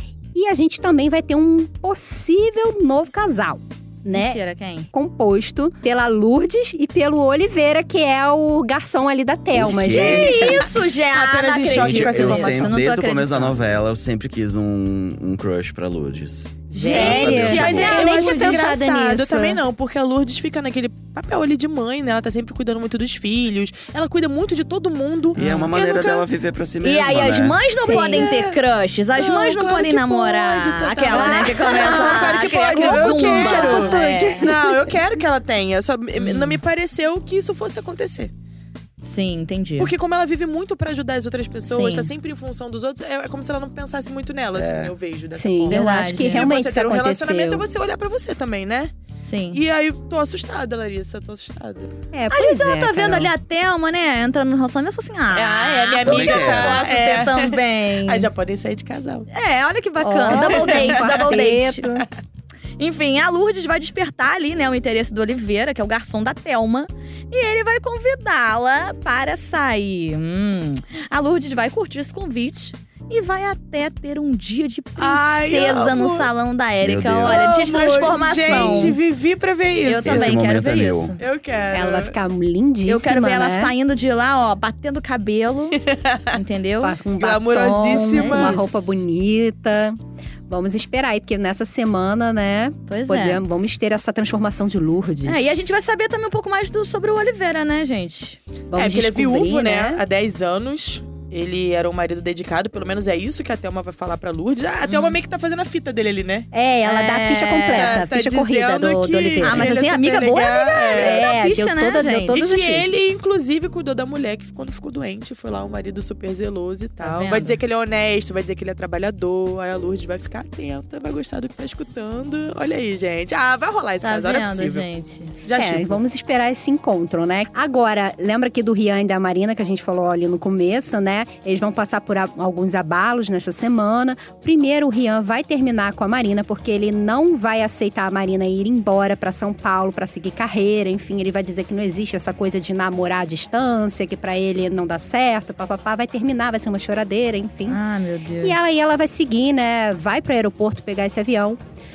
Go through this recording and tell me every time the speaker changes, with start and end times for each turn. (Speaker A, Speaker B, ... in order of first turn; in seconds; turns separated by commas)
Speaker A: 0.3-4.4, Speaker B: 4.1-4.9, Speaker A: 4.9-10.7, Speaker C: 9.5-10.6, Speaker B: 9.9-13.6, Speaker D: 10.3-12.8, Speaker C: 11.7-18.1, Speaker D: 16.7-26.3, Speaker B: 16.7-18.7, Speaker A: 16.8-19.6, Speaker C: 25.4-27.6, Speaker B: 25.4-25.8, Speaker B: 26.8-34.5, Speaker A: 27.8-28.3, Speaker D: 27.9-28.6, Speaker D: 29.1-38.3, Speaker A: 31.1-35.0, Speaker B: 36.2-36.6, Speaker B: 39.0-39.9, Speaker D: 39.8-48.9, Speaker B: 41.7-42.1, Speaker C: 44.5-44.9, Speaker A: 45.3-47.6, Speaker B: 45.7-46.5, Speaker B: 49.2-49.6, Speaker D: 49.5-51.9, Speaker A: 52.1-53.3, Speaker B: 52.3-58.3, Speaker D: 55.3-59.3, Speaker C: 56.0-56.9, Speaker B: 59.3-61.9, Speaker A: 60.0-62.1, Speaker D: 60.3-61.2, Speaker B: 62.8-79.0, Speaker D: 75.0-76.3, Speaker C: 76.8-77.5, Speaker D: 77.2-80.3, Speaker A: 78.5-78.9, Speaker B: 79.8-81.2, Speaker C: 80.0-81.2, Speaker D: 81.2-82.1, Speaker A: 81.7-83.7, Speaker B: 82.8-87.0, Speaker A: 86.8-90.0, Speaker D: 87.2-88.9, Speaker B: 87.6-88.8, Speaker A: 90.5-95.6, Speaker B: 92.9-93.4, Speaker B: 95.2-98.4, Speaker A: 98.7-100.0, Speaker D: 98.8-106.5, Speaker B: 104.8-105.2, Speaker A: 106.5-109.8, Speaker B: 106.8-108.0, Speaker D: 107.7-111.3, Speaker B: 109.4-112.5, Speaker A: 110.9-112.9, Speaker D: 112.3-124.9, Speaker B: 117.0-117.6, Speaker B: 124.0-125.3, Speaker D: 125.4-126.0, Speaker A: 125.5-147.8, Speaker B: 147.7-148.6, Speaker A: 148.4-151.6